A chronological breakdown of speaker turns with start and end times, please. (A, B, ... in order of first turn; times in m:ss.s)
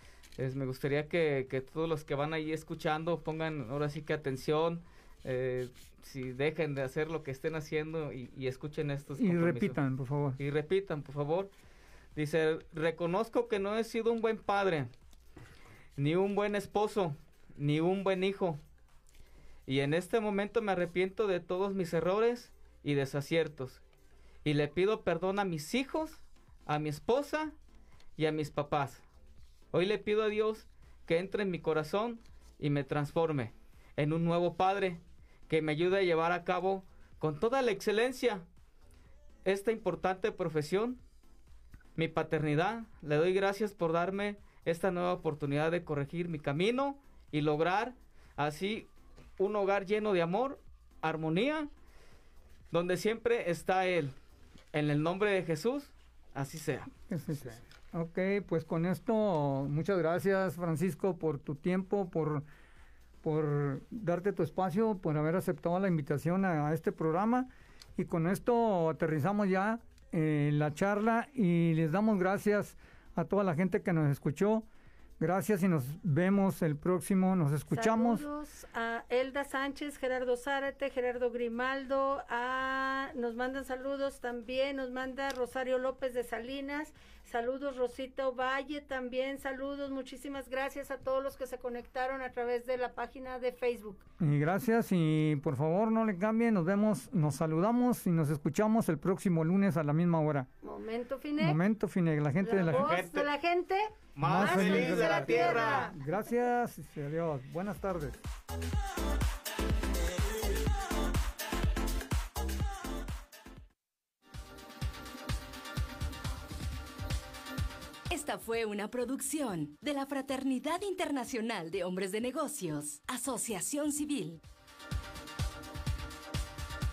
0:00.4-0:09.8 A
0:09.2-0:10.4 B
0:10.4-0:11.5 A
0:12.2-0:14.9 A
0:16.0-0:18.6 A
0:19.7-0:23.8 A
0:24.4-0:27.5 A
0:28.2-0:29.0 A
0:29.7-0:38.4 A
0:39.4-0:41.0 A
0:42.0-0:51.7 A
0:52.7-0:54.1 A
0:54.7-0:56.9 A
0:57.1-1:02.4 B
1:03.2-1:14.6 B
1:15.2-1:18.2 B
1:17.7-1:34.0 C
1:34.2-1:40.5 B
1:40.6-1:41.6 C
1:41.4-1:42.9 B
1:42.4-1:46.0 C
1:42.7-1:43.3 A
1:44.1-1:45.9 A
1:44.2-1:48.2 B
1:58.1-2:04.4 D